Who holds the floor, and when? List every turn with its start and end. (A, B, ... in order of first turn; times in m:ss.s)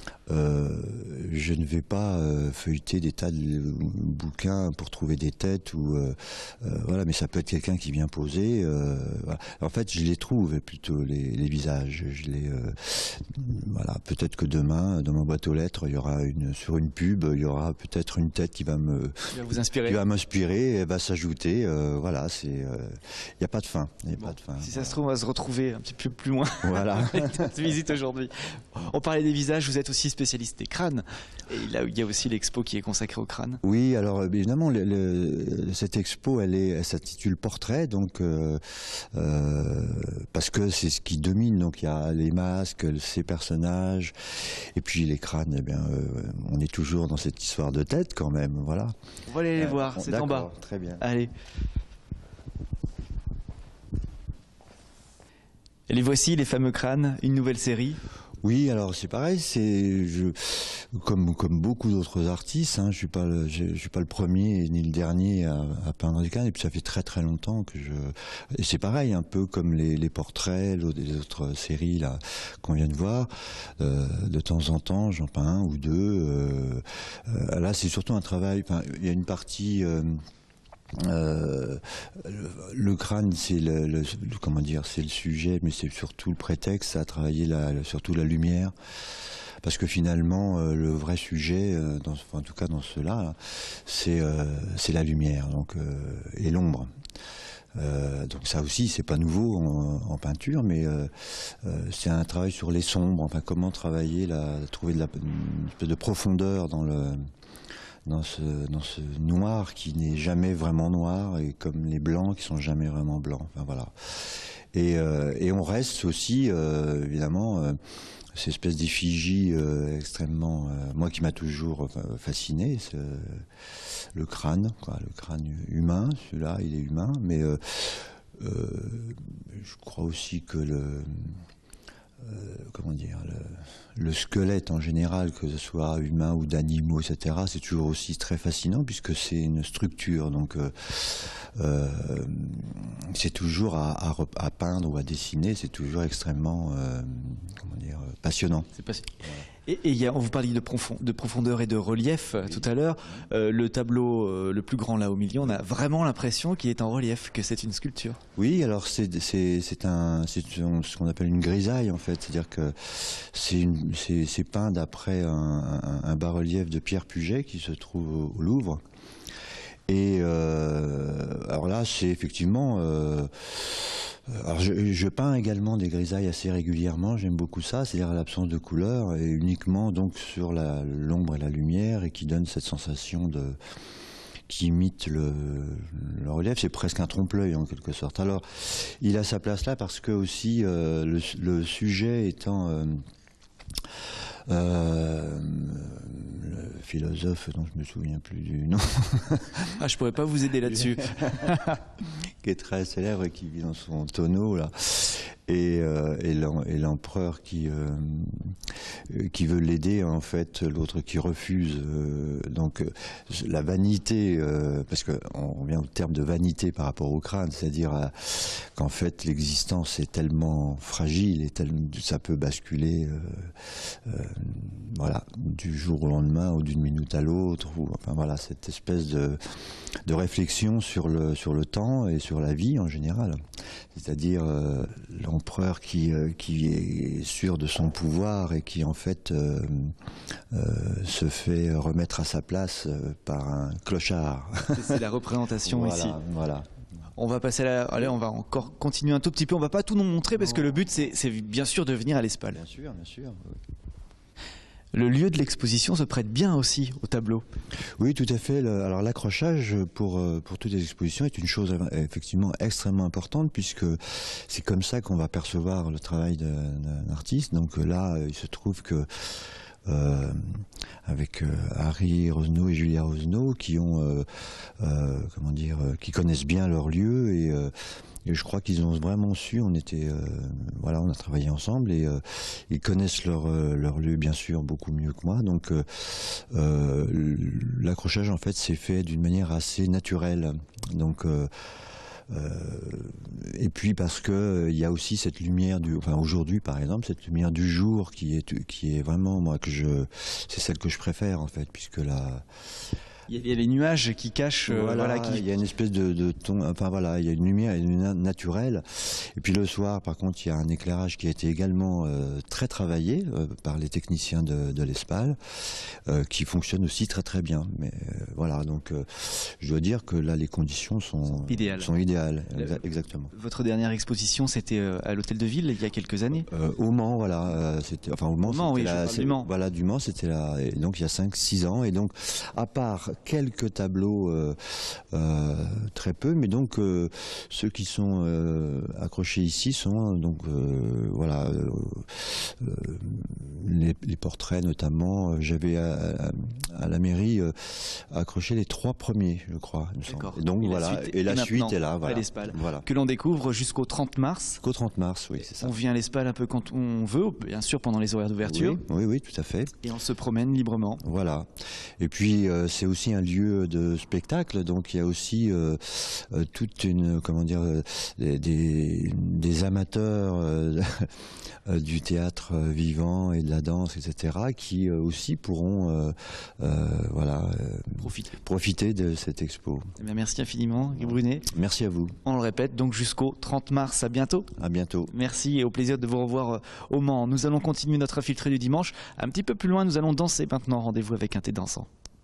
0:00.3-0:25.0 A
0:19.3-0:20.0 B
0:24.2-0:33.6 B
0:26.6-0:27.6 A
0:33.6-0:44.1 A
0:44.8-0:48.9 A
0:49.3-0:51.3 B
0:49.6-0:51.0 A
0:55.9-0:58.0 B
0:58.4-1:20.2 A
1:21.0-1:28.7 A
1:29.6-1:36.9 A
1:37.8-1:47.3 A
1:48.1-1:57.8 A
1:58.4-2:03.5 A
2:04.1-2:11.4 A
2:12.2-2:28.7 A
2:28.8-2:38.2 B
2:32.4-2:33.3 A
2:38.4-2:48.8 A
2:49.9-3:03.6 A
3:04.5-3:13.0 A
3:14.5-3:19.7 A
3:19.8-3:21.8 B
3:20.8-3:21.6 A
3:22.4-3:28.6 A
3:29.1-3:49.4 A
3:50.0-3:53.4 A
3:53.9-4:00.0 A
4:00.5-4:05.0 A
4:04.7-4:06.2 B
4:05.7-4:06.7 A
4:07.2-4:12.6 B
4:12.5-4:13.6 A
4:14.9-4:17.4 B
4:18.0-4:37.7 A
4:38.2-4:51.5 A
4:52.3-5:02.4 A
5:03.3-5:05.5 B
5:04.7-5:15.4 A
5:16.1-5:23.3 A
5:21.3-5:21.9 B
5:23.3-5:26.5 B
5:26.5-5:52.8 A
5:28.4-5:29.5 B
5:50.1-5:54.6 B
5:54.6-5:55.7 A
5:55.5-5:58.8 B
5:58.4-5:59.7 A
5:59.8-6:01.0 B
6:01.0-6:01.5 A
6:02.0-6:11.1 A
6:11.7-6:19.9 A
6:18.0-6:18.4 B
6:20.0-6:21.5 B
6:21.5-6:22.2 A
6:22.2-6:24.5 B
6:24.6-6:25.1 A
6:25.1-6:31.9 B